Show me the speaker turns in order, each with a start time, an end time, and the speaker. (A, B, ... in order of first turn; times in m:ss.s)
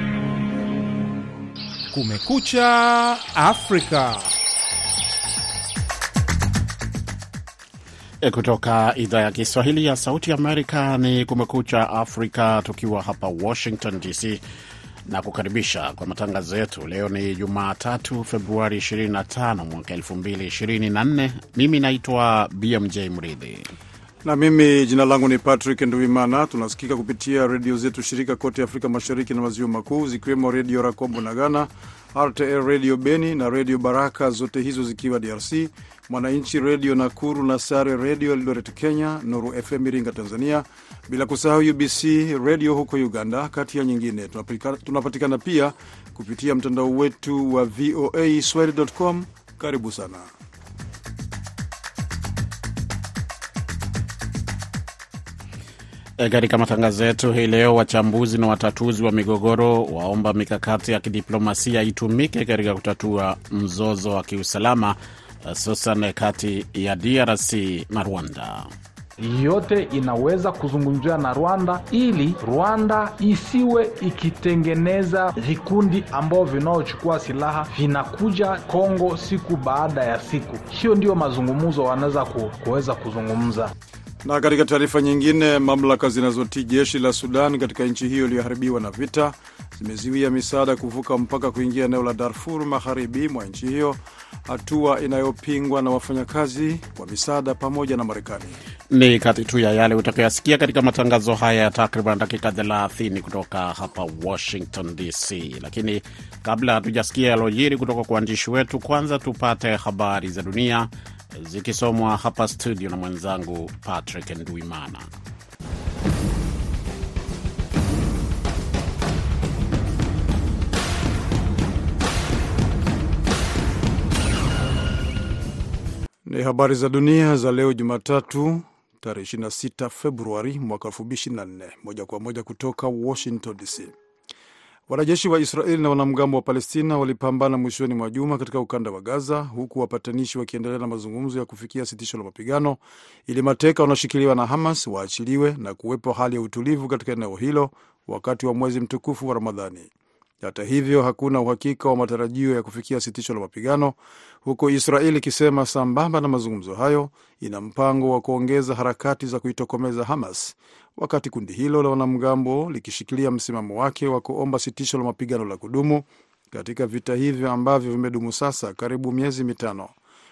0:01.9-0:04.3 A
0:08.2-0:14.4 B
0:15.1-0:23.7 B
0:24.2-0:50.3 C
0:56.2-1:08.7 B
1:09.2-1:23.7 D
1:24.2-1:38.6 C
1:38.9-1:55.1 B
2:06.2-2:13.9 C
2:14.9-2:29.9 C
2:30.4-2:49.9 C